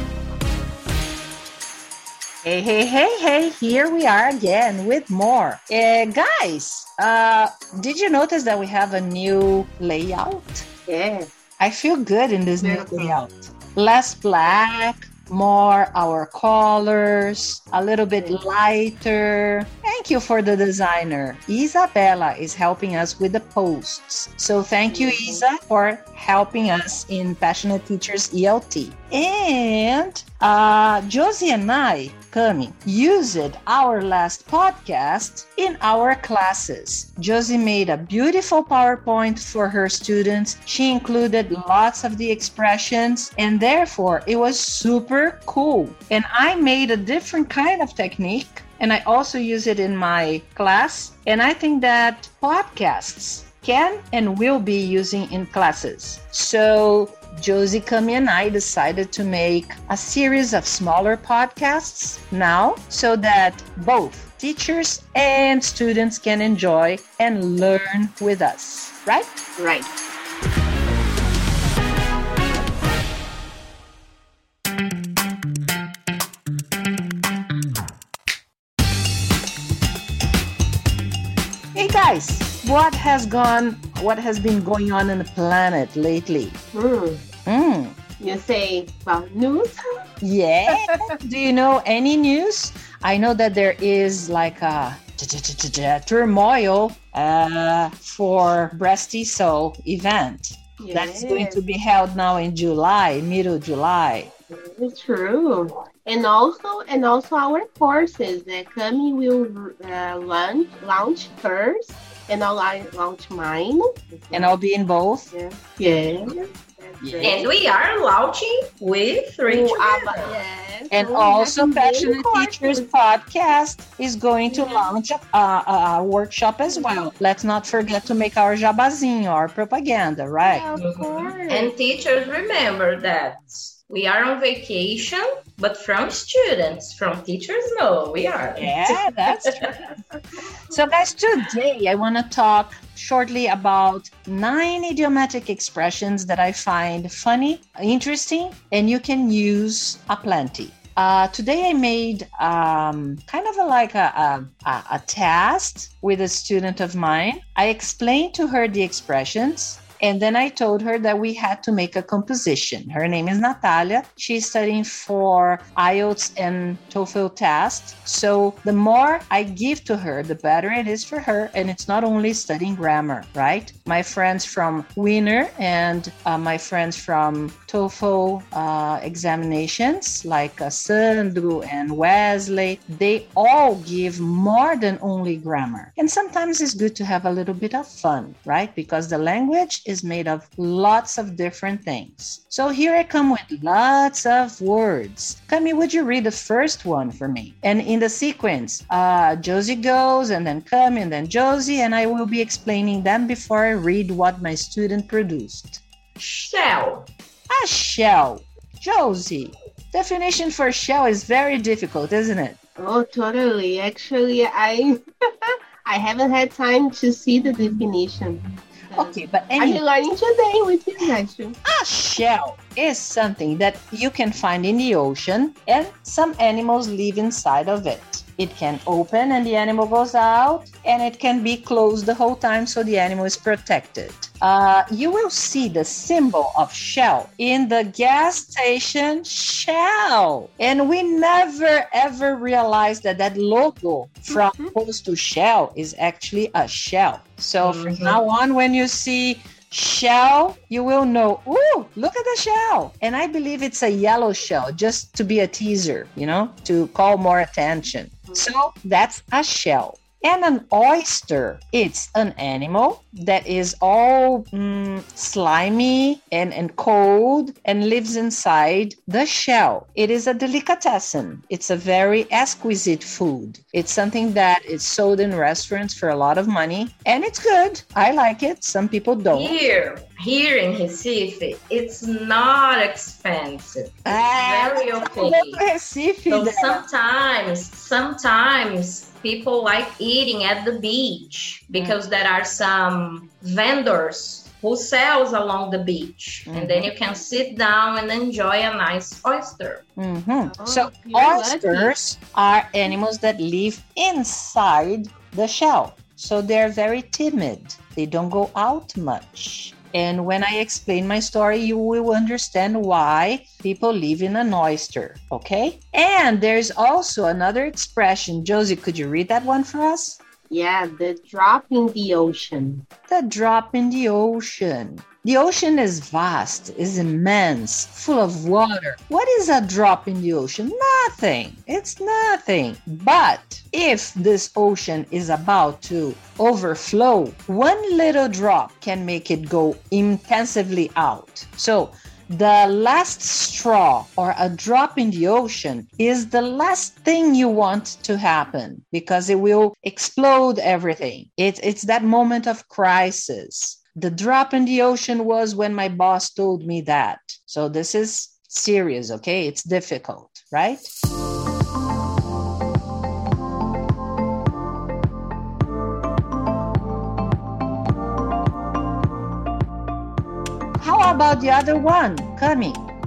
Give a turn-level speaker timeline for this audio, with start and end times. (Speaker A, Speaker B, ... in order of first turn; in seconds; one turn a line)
Speaker A: 2.4-10.7
Speaker B: 10.9-11.3
Speaker A: 11.6-69.3
Speaker B: 12.6-13.2
Speaker B: 24.9-25.5
Speaker B: 69.6-69.9
Speaker A: 81.8-86.6
Speaker B: 86.7-87.3
Speaker A: 87.5-88.0
Speaker B: 88.2-89.8
Speaker A: 90.2-104.3
Speaker B: 100.8-101.6
Speaker B: 104.6-114.5
Speaker A: 114.3-115.3
Speaker B: 115.3-117.6
Speaker A: 117.0-117.4
Speaker C: 117.2-120.4
Speaker B: 119.5-122.9
Speaker A: 120.9-130.7
Speaker B: 124.5-124.9
Speaker B: 126.7-127.0
Speaker B: 130.4-131.7
Speaker C: 130.8-139.7
Speaker A: 138.6-139.8
Speaker A: 140.7-205.8
Speaker C: 206.2-207.1
Speaker A: 207.5-212.6
Speaker B: 212.8-221.6
Speaker A: 218.9-219.8
Speaker A: 221.7-279.6
Speaker B: 244.3-244.7
Speaker C: 247.6-248.2
Speaker C: 279.3-285.6
Speaker A: 284.1-286.9
Speaker C: 286.3-299.8
Speaker A: 296.5-296.9
Speaker A: 300.0-320.2
Speaker B: 300.5-301.9
Speaker B: 320.5-322.9
Speaker A: 323.1-360.9
Speaker A: 370.8-372.8